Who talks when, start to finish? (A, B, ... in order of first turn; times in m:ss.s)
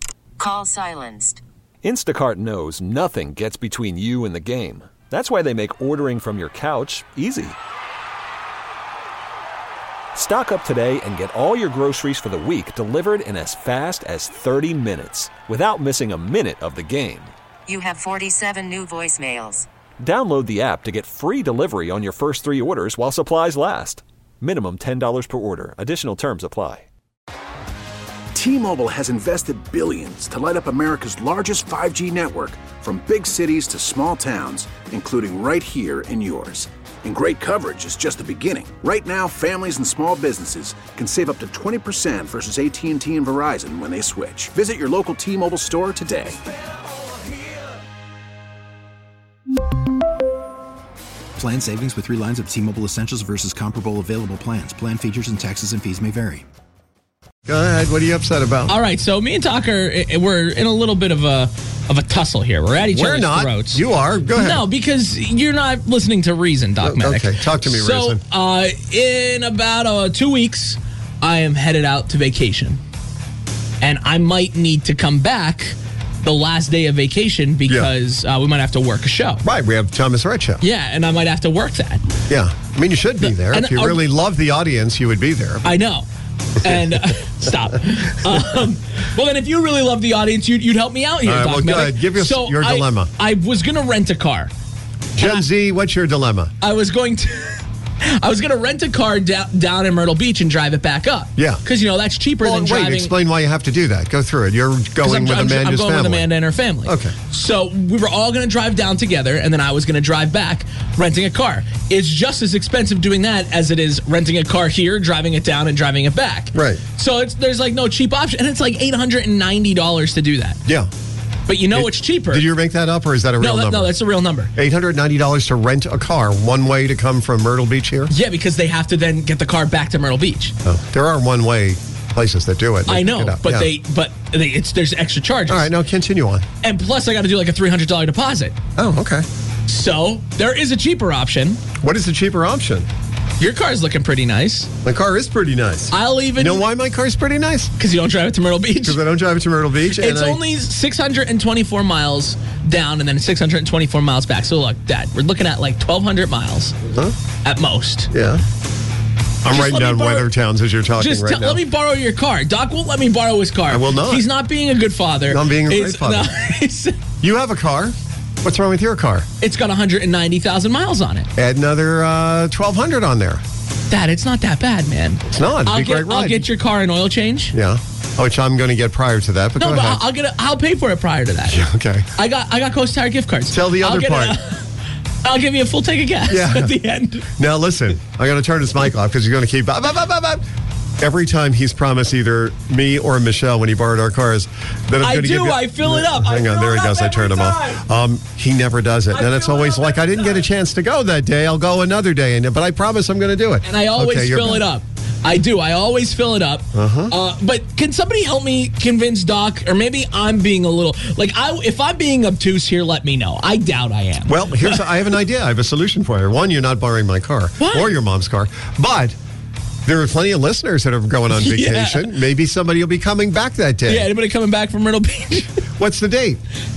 0:00.4-0:01.4 A
0:01.8-0:07.6 B
0:10.1-0:17.3 B
0:17.7-0:19.6 A
0:20.0-0:26.8 B
0:28.3-0:46.4 C
0:51.4-0:56.4 D
0:57.4-0:58.8 E
0:58.7-1:03.8 F
1:02.9-1:04.6 E
1:04.4-1:12.8 F
1:06.8-1:08.2 E
1:13.8-1:19.4 F
1:19.4-1:20.6 E
1:20.6-1:22.0 F
1:22.3-1:25.7 E
1:23.2-1:24.0 F
1:25.6-1:26.0 F
1:26.6-1:34.5 F
1:31.2-1:33.1 E
1:35.1-1:36.5 E
1:36.6-1:43.1 F
1:41.4-1:41.6 E
1:42.4-1:46.3 E
1:45.0-2:00.6 F
1:46.8-1:47.1 E
1:56.5-1:56.8 E
2:01.5-2:02.4 F
2:01.7-2:03.9 E
2:03.4-2:04.5 F
2:04.5-2:08.1 E
2:08.1-2:10.5 F
2:10.6-2:13.7 E
2:12.9-2:15.7 F
2:15.5-2:16.4 E
2:16.6-2:18.5 F
2:18.8-2:19.2 E
2:19.7-2:21.6 F
2:21.8-2:22.9 E
2:23.4-2:24.7 F
2:24.8-2:27.7 E
2:25.9-2:26.6 F
2:27.8-2:29.0 F
2:28.8-2:30.4 E
2:30.0-2:36.7 F
2:36.9-2:37.1 E
2:37.4-2:38.1 F
2:38.1-2:38.4 E
2:39.4-2:41.6 E
2:39.5-2:40.3 F
2:41.0-2:46.9 F
2:43.7-2:44.3 E
2:45.3-2:46.3 E
2:47.2-2:49.3 E
2:49.4-2:51.3 F
2:51.4-2:53.4 E
2:53.9-2:57.5 F
2:55.3-2:56.5 E
2:57.5-3:00.0 E
2:59.6-3:01.6 F
3:01.4-3:02.0 E
3:02.2-3:04.6 F
3:03.5-3:04.4 E
3:05.2-3:07.3 F
3:06.3-3:06.8 E
3:07.4-3:10.4 E
3:11.0-3:24.7 E
3:15.0-3:17.8 F
3:19.1-3:20.4 F
3:23.6-3:34.8 F
3:26.7-3:27.1 E
3:34.3-3:39.2 E
3:37.6-3:37.9 F
3:39.8-3:44.1 E
3:41.3-3:42.0 F
3:43.9-3:45.5 F
3:45.8-3:46.4 E